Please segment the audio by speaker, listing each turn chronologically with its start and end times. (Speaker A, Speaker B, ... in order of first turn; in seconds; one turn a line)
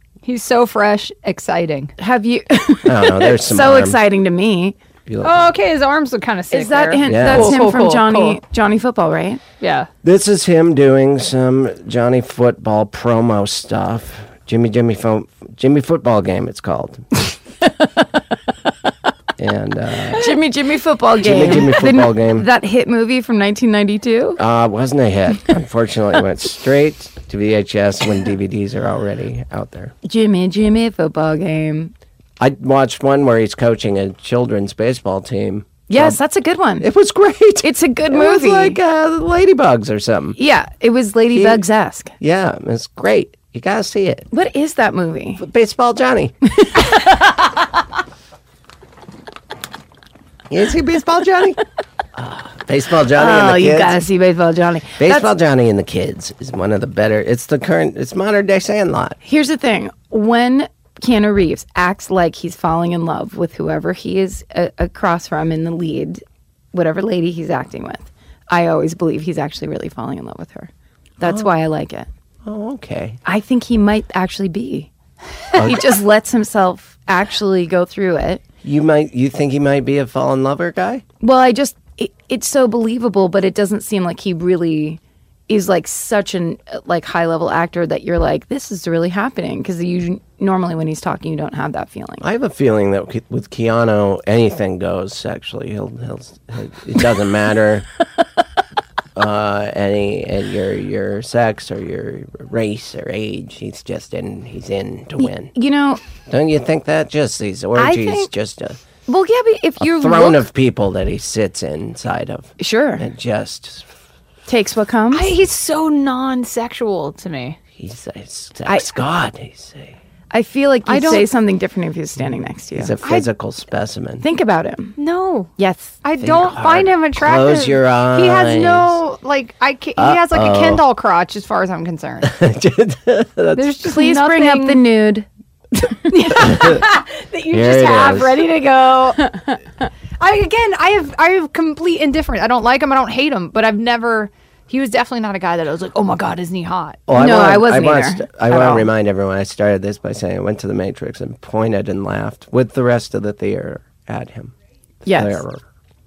Speaker A: 0.2-1.9
Speaker B: 2.0-4.8
Speaker C: 2.8-4.0
Speaker C: 5.0-5.5
Speaker A: 5.2-8.4
Speaker B: 6.5-9.4
Speaker C: 7.0-7.6
Speaker A: 9.6-9.9
Speaker C: 10.0-17.0
Speaker C: 19.4-20.3
Speaker B: 20.1-24.4
Speaker C: 21.2-22.5
Speaker C: 24.4-29.9
Speaker B: 30.0-31.9
Speaker C: 32.4-36.2
Speaker B: 35.9-36.9
Speaker C: 36.8-40.4
Speaker B: 37.6-38.8
Speaker B: 40.4-42.1
Speaker C: 41.3-41.6
Speaker C: 42.2-44.3
Speaker B: 44.3-45.4
Speaker C: 45.4-46.3
Speaker B: 46.6-47.1
Speaker C: 50.5-51.6
Speaker C: 52.1-54.0
Speaker B: 53.1-55.3
Speaker C: 55.0-59.2
Speaker B: 59.2-66.2
Speaker B: 66.7-72.1
Speaker C: 72.4-73.2
Speaker B: 73.2-74.9
Speaker B: 75.5-78.4
Speaker C: 75.5-75.9
Speaker C: 78.6-81.0
Speaker B: 81.2-92.2
Speaker C: 92.2-97.8
Speaker C: 99.2-105.5
Speaker B: 105.2-106.0
Speaker C: 106.2-108.8
Speaker B: 107.8-108.3
Speaker B: 109.1-110.4
Speaker C: 109.8-113.9
Speaker B: 112.6-113.0
Speaker B: 114.5-115.3
Speaker A: 115.1-117.6
Speaker C: 117.8-120.0
Speaker B: 120.3-123.0
Speaker A: 120.8-121.2
Speaker C: 122.8-124.2
Speaker B: 124.2-125.0
Speaker A: 125.0-125.5
Speaker B: 125.6-126.0
Speaker A: 126.0-132.3
Speaker C: 126.2-129.0
Speaker C: 130.0-130.8
Speaker C: 132.2-133.7
Speaker A: 133.5-134.8
Speaker B: 133.8-136.8
Speaker A: 136.1-139.3
Speaker C: 137.5-138.4
Speaker A: 140.2-147.0
Speaker C: 147.1-154.5
Speaker B: 147.1-148.9
Speaker B: 155.0-155.4
Speaker C: 155.1-155.6